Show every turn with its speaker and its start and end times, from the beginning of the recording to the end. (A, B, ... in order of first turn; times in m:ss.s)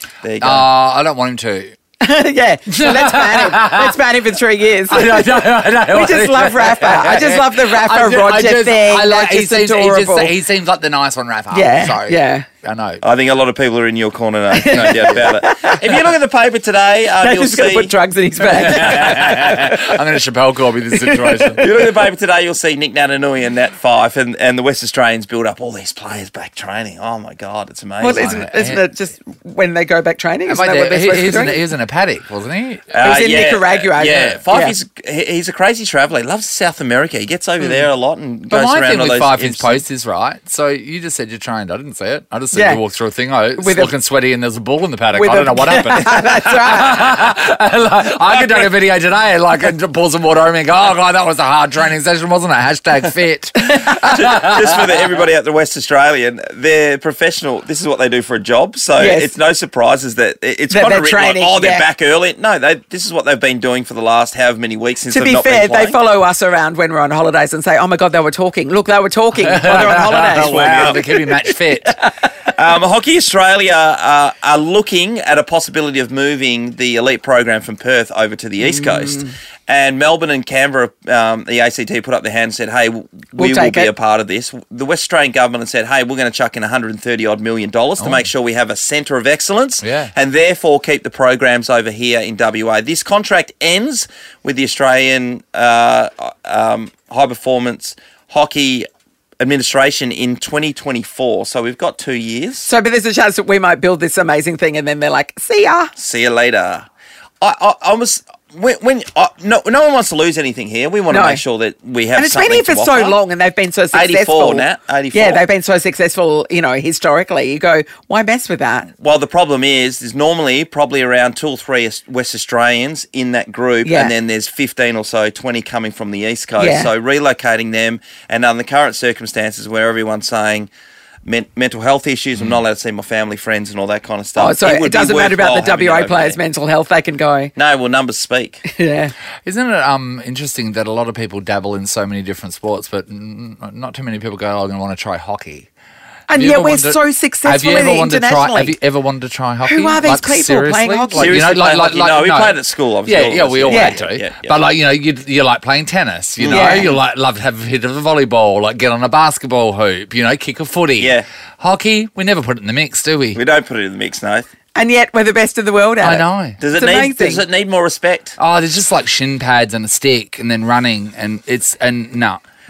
0:00.2-0:00.7 A
0:00.4-0:01.8 B
0:02.0-0:10.4 C
0:02.8-0:04.0 B
0:04.9-0:13.0 B
0:11.5-0:12.5 C
0:13.0-0:17.9 A
0:14.5-0:15.8 C
0:14.6-0:15.2 B
0:17.2-0:19.9 C
0:18.5-0:21.7 B
0:18.6-0:19.8 A
0:21.1-0:21.6 C
0:21.6-0:28.5 A
0:28.0-0:31.6 C
0:28.1-0:28.8 B
0:30.5-0:33.0 B
0:32.9-0:39.8 A
0:33.0-0:34.8 C
0:38.5-0:54.8 B
0:42.5-0:42.8 C
0:43.6-0:43.9 C
0:45.1-0:47.1 C
0:53.7-1:06.0 A
0:59.0-0:59.4 C
1:00.7-1:01.9 C
1:05.1-1:11.9 C
1:09.4-1:12.0 B
1:09.7-1:11.0 A
1:12.5-1:38.9 A
1:18.6-1:19.3 C
1:23.4-1:23.9 C
1:28.0-1:28.3 B
1:29.8-1:30.1 B
1:39.4-1:42.7 A
1:42.6-1:45.9 C
1:46.0-1:46.9 A
1:47.4-1:53.2 A
1:51.1-1:51.4 C
1:52.1-1:58.9 C
1:53.9-1:55.5 A
1:59.0-2:10.7 A
2:03.8-2:04.1 C
2:06.6-2:06.9 C
2:11.2-2:16.4 A
2:14.4-2:17.5 C
2:17.6-2:18.6 A
2:18.7-2:19.1 C
2:19.4-2:25.7 B
2:26.3-2:28.8 C
2:26.3-2:43.4 B
2:29.6-2:31.6 C
2:31.1-2:34.6 A
2:33.7-2:34.0 C
2:36.4-2:37.0 A
2:36.5-2:36.9 C
2:41.0-2:41.3 A
2:43.4-2:44.5 A
2:44.8-2:47.4 C
2:46.0-2:46.6 B
2:46.6-2:48.3 A
2:48.4-2:52.4 B